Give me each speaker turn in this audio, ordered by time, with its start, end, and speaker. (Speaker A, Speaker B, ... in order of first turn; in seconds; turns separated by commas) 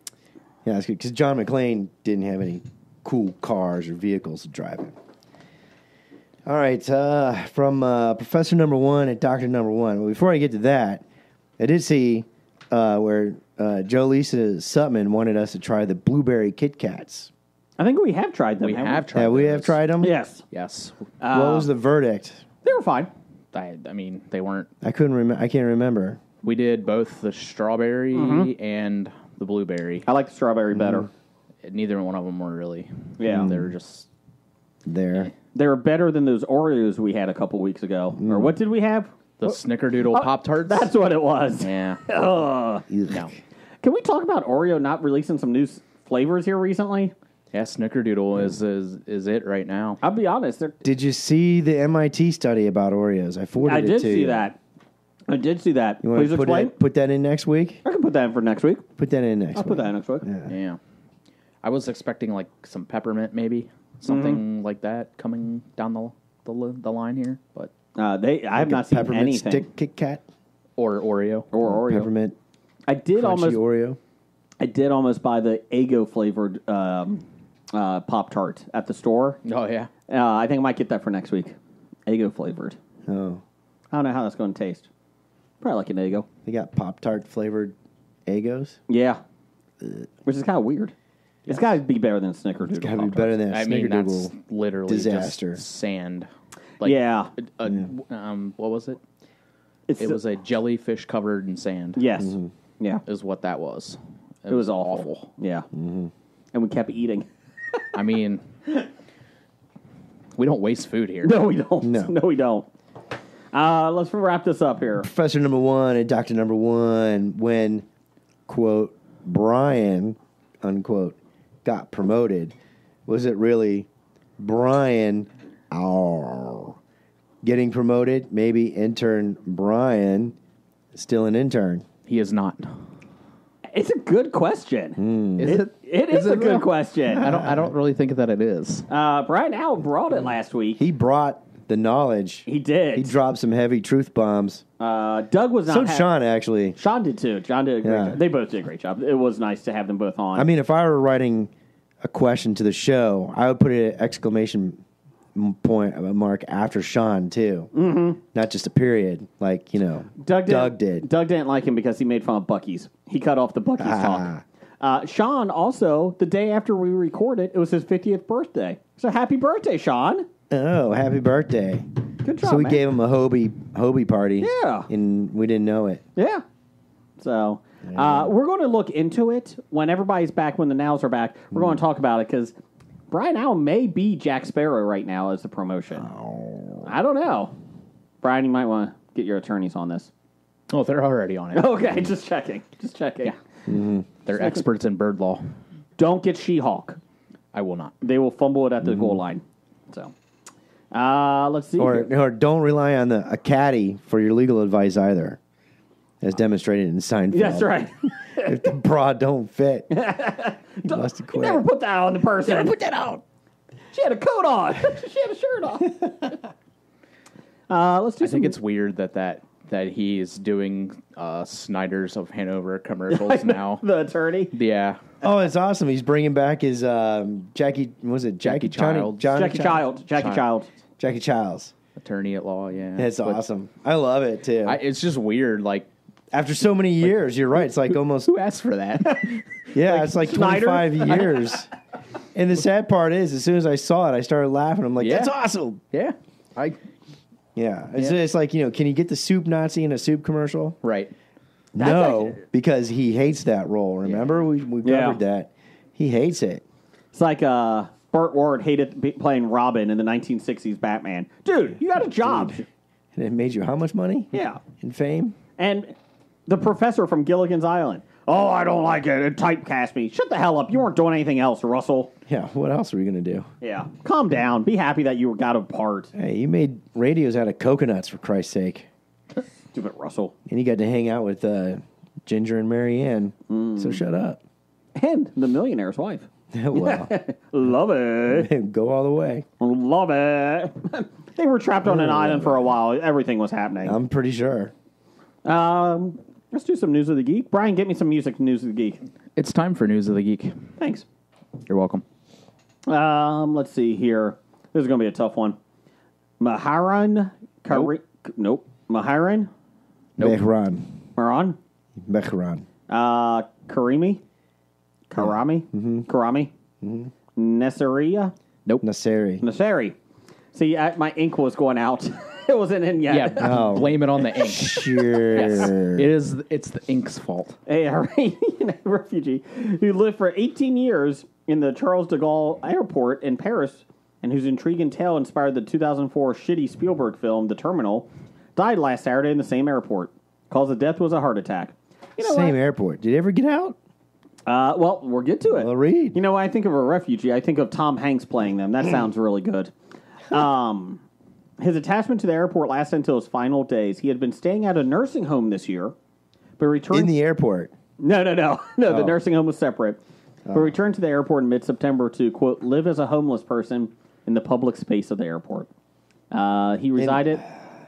Speaker A: 0.6-4.9, Speaker A: 6.4-11.0, Speaker A: 11.6-17.3, Speaker B: 17.8-19.0, Speaker C: 18.6-19.8, Speaker A: 19.1-20.1, Speaker B: 20.0-20.4, Speaker C: 20.5-21.1, Speaker B: 21.2-21.7, Speaker A: 21.3-22.4, Speaker B: 22.6-23.1, Speaker C: 23.5-24.7, Speaker A: 24.8-26.2, Speaker C: 26.4-30.1, Speaker B: 28.1-28.5, Speaker B: 30.0-31.1, Speaker A: 30.7-31.1, Speaker C: 31.6-34.1, Speaker B: 33.2-33.5, Speaker A: 33.3-33.7, Speaker A: 34.9-35.3, Speaker B: 35.5-39.1, Speaker A: 38.2-38.5, Speaker C: 39.4-40.9, Speaker B: 40.1-42.8, Speaker C: 41.6-42.0, Speaker A: 42.9-43.3, Speaker B: 43.8-47.1, Speaker C: 47.5-50.0, Speaker B: 50.0-50.8, Speaker A: 50.8-54.5, Speaker B: 53.6-54.6, Speaker B: 55.3-56.8, Speaker A: 56.0-57.8, Speaker B: 57.8-58.9, Speaker A: 59.0-60.5, Speaker B: 59.5-60.2, Speaker C: 60.5-60.8, Speaker C: 61.6-67.7, Speaker B: 64.1-64.4, Speaker B: 68.0-69.7, Speaker A: 68.5-70.2, Speaker C: 70.8-71.5, Speaker B: 71.5-72.1, Speaker A: 71.6-72.3, Speaker B: 72.9-73.6, Speaker A: 73.2-74.0, Speaker B: 74.6-79.4, Speaker C: 79.4-79.9, Speaker B: 80.1-81.5, Speaker B: 82.1-82.8, Speaker A: 83.1-83.4, Speaker B: 83.9-84.9, Speaker B: 85.6-86.2, Speaker A: 86.5-88.8, Speaker B: 88.9-89.2, Speaker A: 89.8-90.1, Speaker B: 90.2-90.9, Speaker C: 91.5-91.7, Speaker B: 91.5-93.3, Speaker A: 92.7-94.3, Speaker C: 93.5-96.3, Speaker A: 94.9-95.6, Speaker C: 96.8-99.0, Speaker B: 96.8-97.3, Speaker B: 99.9-100.2, Speaker C: 100.0-102.0, Speaker B: 102.0-103.0, Speaker A: 102.2-102.5, Speaker C: 103.0-105.3, Speaker B: 104.5-105.7, Speaker A: 105.7-106.1, Speaker B: 106.5-107.8, Speaker C: 107.9-108.4, Speaker C: 110.3-111.5, Speaker B: 111.2-112.7, Speaker A: 111.8-112.1, Speaker B: 113.5-115.1, Speaker A: 115.0-117.8, Speaker A: 118.5-122.5, Speaker A: 123.0-123.9, Speaker A: 124.4-126.8, Speaker A: 127.4-130.3, Speaker A: 130.9-131.8, Speaker C: 132.1-132.7, Speaker B: 133.7-137.3, Speaker A: 135.0-135.5, Speaker C: 135.4-138.8, Speaker A: 137.2-137.7, Speaker B: 138.9-140.8, Speaker A: 140.8-144.6, Speaker B: 142.4-143.1, Speaker B: 144.8-146.1, Speaker A: 145.7-146.8, Speaker B: 146.8-150.5, Speaker A: 147.8-148.2, Speaker A: 150.3-151.5, Speaker A: 152.0-154.8, Speaker A: 155.3-157.7, Speaker B: 157.7-158.2, Speaker A: 158.2-161.1, Speaker B: 160.2-164.3, Speaker A: 163.8-164.4, Speaker B: 164.8-170.3, Speaker A: 170.5-171.9, Speaker B: 172.2-172.8, Speaker A: 172.4-176.0, Speaker B: 174.4-174.9, Speaker B: 176.2-176.4, Speaker B: 177.2-182.5, Speaker A: 177.8-178.3, Speaker B: 183.1-186.1, Speaker A: 186.0-186.9, Speaker B: 186.8-187.5, Speaker B: 188.2-190.1, Speaker C: 190.7-191.8, Speaker B: 191.5-193.3, Speaker A: 193.7-194.1, Speaker C: 194.2-195.4, Speaker B: 194.3-194.6, Speaker B: 196.0-197.0, Speaker C: 197.5-197.9, Speaker B: 198.0-200.1, Speaker A: 198.8-199.2, Speaker B: 200.9-202.1, Speaker A: 201.8-205.4, Speaker A: 206.2-209.9, Speaker B: 207.3-208.7, Speaker B: 209.9-212.7, Speaker A: 210.8-211.6, Speaker A: 212.4-213.2, Speaker B: 213.9-216.1, Speaker B: 217.7-218.6, Speaker C: 218.2-223.8, Speaker B: 223.1-224.5, Speaker C: 224.5-225.0, Speaker A: 225.2-229.8, Speaker C: 228.4-230.4, Speaker B: 229.3-230.7, Speaker A: 231.0-231.7, Speaker C: 232.0-233.4, Speaker A: 232.9-234.8, Speaker C: 234.6-235.9, Speaker A: 236.3-238.3, Speaker C: 238.2-239.6, Speaker A: 239.7-241.7, Speaker B: 239.8-241.6, Speaker A: 242.3-245.8, Speaker C: 245.0-245.3, Speaker C: 245.9-246.8, Speaker A: 247.6-250.8, Speaker C: 250.8-251.1, Speaker A: 251.7-256.6, Speaker B: 251.8-252.4, Speaker B: 254.8-255.2, Speaker B: 257.1-262.6, Speaker A: 262.2-262.6, Speaker A: 263.1-265.4, Speaker B: 264.3-264.6, Speaker B: 265.6-265.9, Speaker B: 266.5-272.1, Speaker A: 272.3-273.5, Speaker B: 273.6-276.1, Speaker A: 276.1-278.9, Speaker B: 279.7-280.3, Speaker A: 280.5-284.4, Speaker B: 283.5-284.0, Speaker B: 284.9-288.5, Speaker A: 286.5-287.1, Speaker A: 288.3-289.4, Speaker B: 289.6-294.0, Speaker A: 291.8-292.7, Speaker A: 293.8-294.7, Speaker B: 295.4-299.0, Speaker C: 299.4-300.6, Speaker B: 300.8-301.0, Speaker C: 301.7-302.0, Speaker B: 302.9-305.6, Speaker B: 306.4-309.5, Speaker A: 310.2-311.0, Speaker B: 311.1-311.6, Speaker A: 312.0-312.6, Speaker B: 312.9-314.2, Speaker B: 315.1-316.5, Speaker A: 315.7-316.1, Speaker A: 316.8-317.1, Speaker B: 317.4-318.3, Speaker A: 318.8-319.4, Speaker B: 319.4-319.9, Speaker B: 320.5-323.6, Speaker C: 323.1-327.6, Speaker A: 323.4-326.1, Speaker B: 327.7-342.6, Speaker A: 342.2-343.8, Speaker B: 344.4-349.7, Speaker A: 345.5-346.2, Speaker B: 350.3-351.0, Speaker B: 351.6-355.9, Speaker B: 356.6-357.1, Speaker A: 356.9-357.7, Speaker B: 358.0-360.0, Speaker A: 358.9-359.2, Speaker A: 360.5-360.7, Speaker B: 360.5-365.7, Speaker B: 366.3-367.4, Speaker A: 367.0-367.5